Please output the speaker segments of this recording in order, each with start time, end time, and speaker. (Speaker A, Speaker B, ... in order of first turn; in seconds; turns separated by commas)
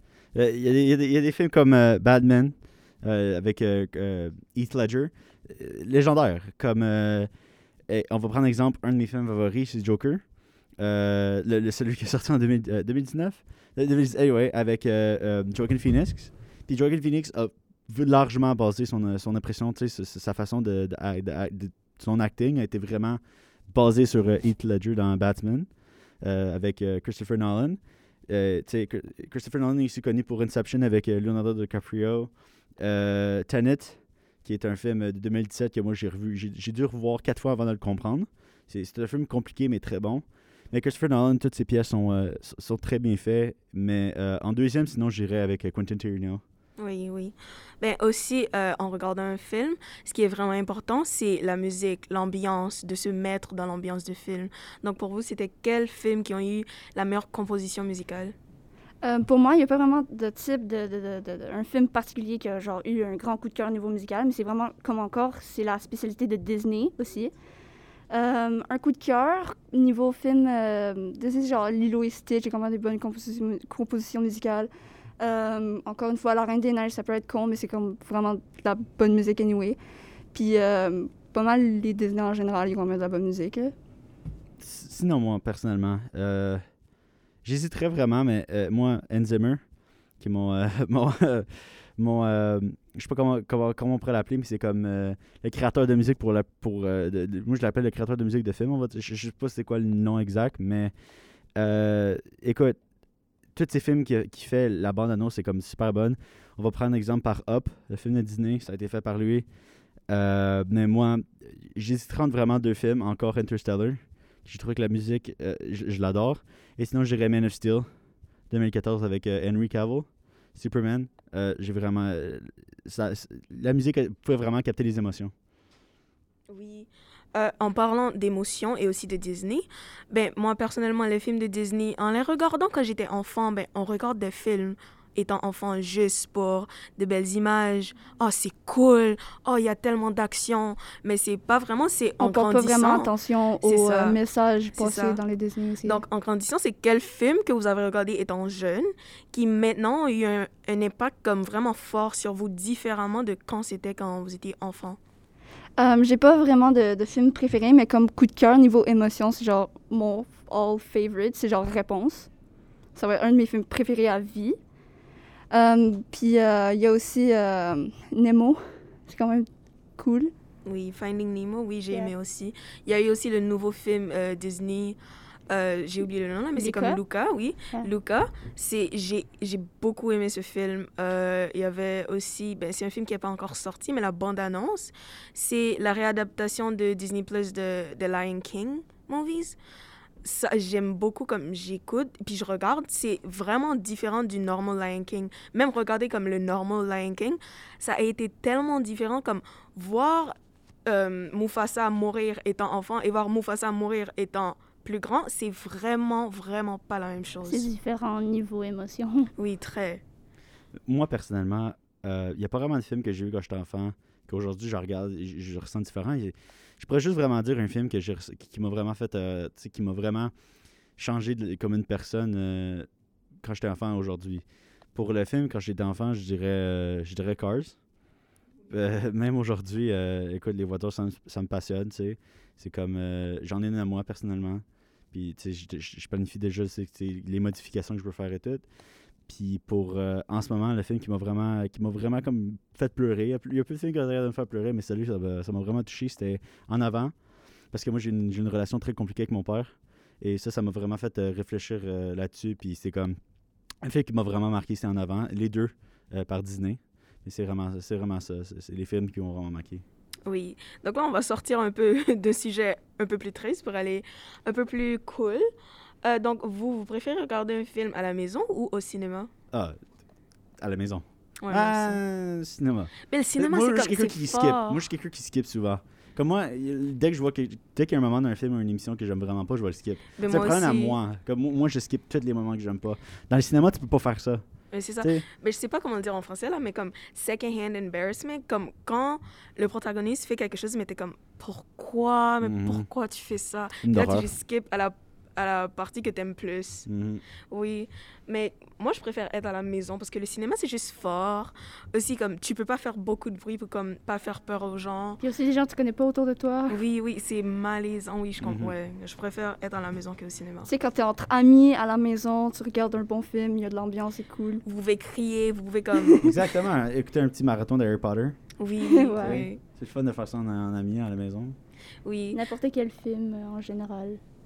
Speaker A: 0.3-7.3, Speaker A: 7.9-46.4, Speaker B: 46.8-58.3, Speaker C: 59.0-67.3, Speaker C: 68.1-79.8, Speaker C: 80.3-83.7, Speaker A: 84.6-86.6, Speaker A: 87.4-89.6, Speaker A: 90.2-100.9, Speaker A: 101.5-102.8, Speaker A: 103.5-109.5, Speaker A: 110.1-117.9, Speaker A: 118.5-125.3, Speaker B: 126.5-144.2, Speaker C: 142.2-146.0, Speaker B: 144.8-145.2, Speaker B: 145.8-155.0, Speaker C: 155.8-162.3, Speaker C: 162.9-164.6, Speaker C: 165.5-170.3, Speaker B: 170.7-175.0, Speaker B: 175.5-189.6, Speaker C: 176.6-177.0, Speaker B: 190.2-200.3, Speaker B: 200.9-207.7, Speaker C: 207.4-209.3, Speaker B: 209.4-210.0, Speaker A: 210.9-220.3, Speaker A: 221.0-222.9, Speaker A: 223.4-227.8, Speaker A: 228.7-238.7, Speaker A: 239.3-247.1, Speaker A: 247.7-253.2, Speaker A: 253.8-259.8, Speaker B: 260.2-265.4, Speaker B: 266.0-269.3, Speaker A: 270.6-284.4, Speaker B: 271.4-272.0, Speaker B: 273.1-274.9, Speaker B: 280.2-281.0, Speaker B: 284.7-296.9, Speaker A: 285.0-285.2, Speaker A: 292.4-292.9, Speaker A: 293.8-294.3, Speaker A: 296.9-297.2, Speaker B: 297.5-305.2, Speaker C: 305.2-306.8, Speaker B: 306.7-310.7, Speaker A: 308.4-308.8, Speaker C: 310.7-314.6, Speaker B: 314.6-316.4, Speaker A: 316.2-318.4, Speaker B: 318.6-319.6, Speaker C: 318.8-319.5, Speaker A: 319.2-321.6, Speaker B: 322.1-322.4, Speaker C: 322.3-324.2